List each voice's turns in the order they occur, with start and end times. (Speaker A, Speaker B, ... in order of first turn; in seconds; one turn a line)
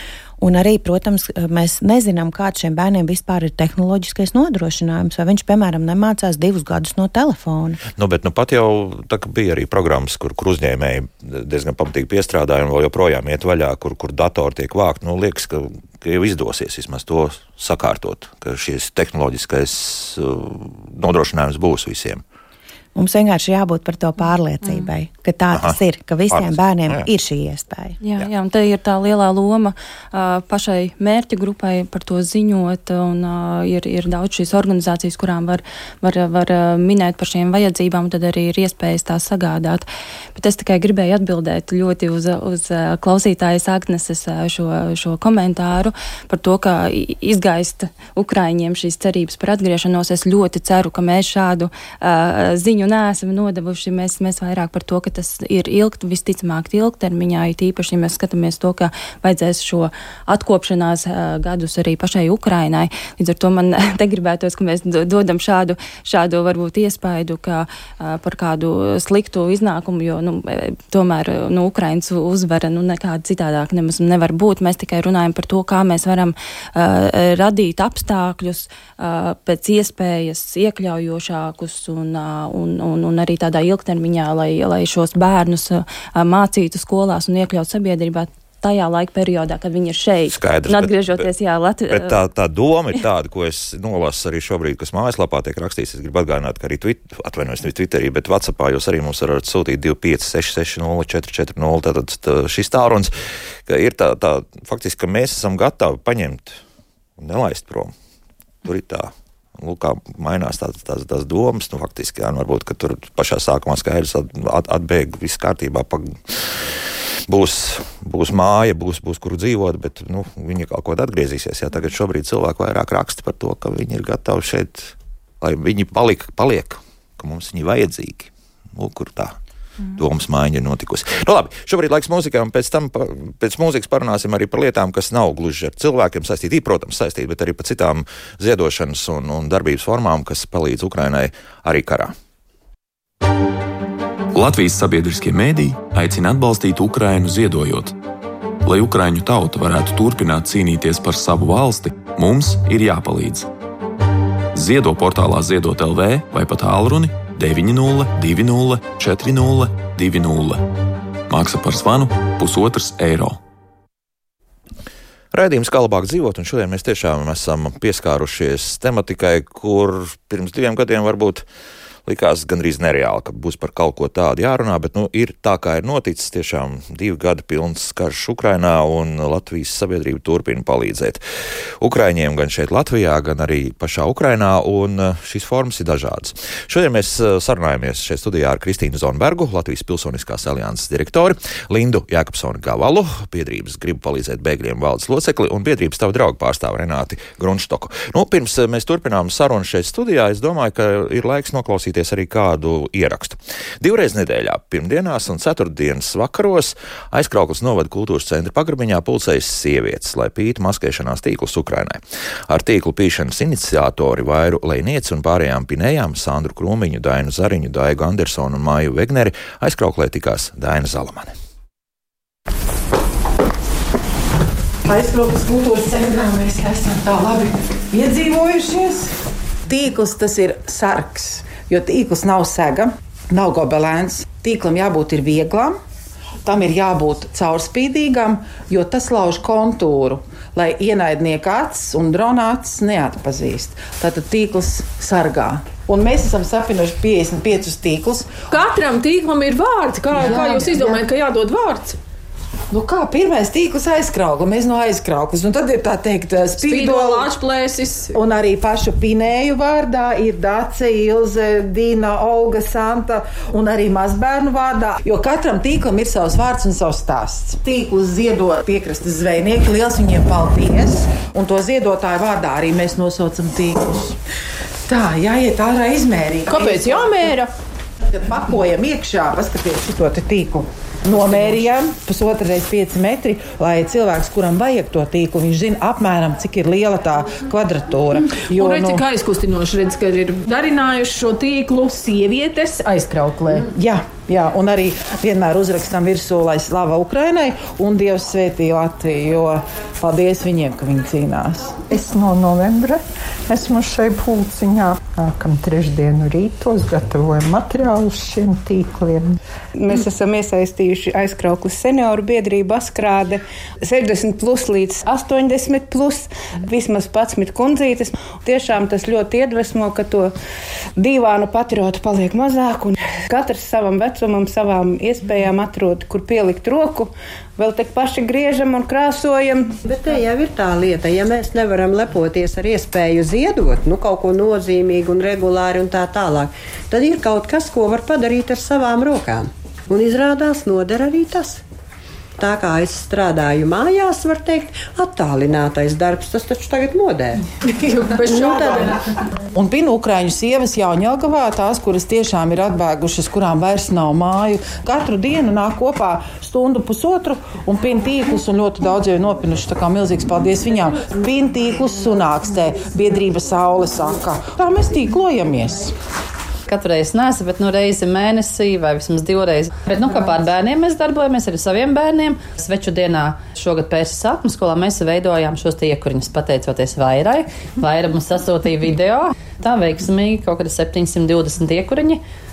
Speaker A: 0.4-7.8
Speaker B: 8.0-22.2
Speaker A: 22.9-28.0
Speaker B: 26.3-27.1
Speaker C: 28.0-92.2
Speaker B: 90.3-91.3
Speaker B: 91.9-103.1
Speaker B: 103.7-106.6
Speaker B: 107.2-107.9
Speaker B: 108.7-129.4
Speaker B: 129.9-142.1
Speaker D: 144.3-148.0
Speaker D: 148.7-153.5
Speaker D: 154.5-160.7
Speaker D: 161.3-163.4
Speaker B: 165.3-171.4
Speaker B: 172.1-181.2
Speaker B: 181.8-221.3
Speaker E: 224.8-235.8
Speaker E: 236.4-248.3
Speaker F: 248.5-252.0
Speaker E: 250.1-251.0
Speaker E: 252.7-257.3
Speaker F: 256.6-258.2
Speaker E: 258.1-274.2
Speaker E: 274.9-277.3
Speaker F: 276.5-277.5
Speaker E: 278.0-289.0
Speaker F: 288.3-293.7
Speaker E: 293.7-301.8
Speaker G: 301.9-309.4
Speaker H: 309.8-320.3
Speaker H: 321.0-329.8
Speaker I: 329.8-341.6
Speaker I: 342.4-347.4
Speaker F: 347.7-349.0
Speaker I: 348.3-348.9
Speaker E: 349.5-365.9
Speaker J: 366.7-382.2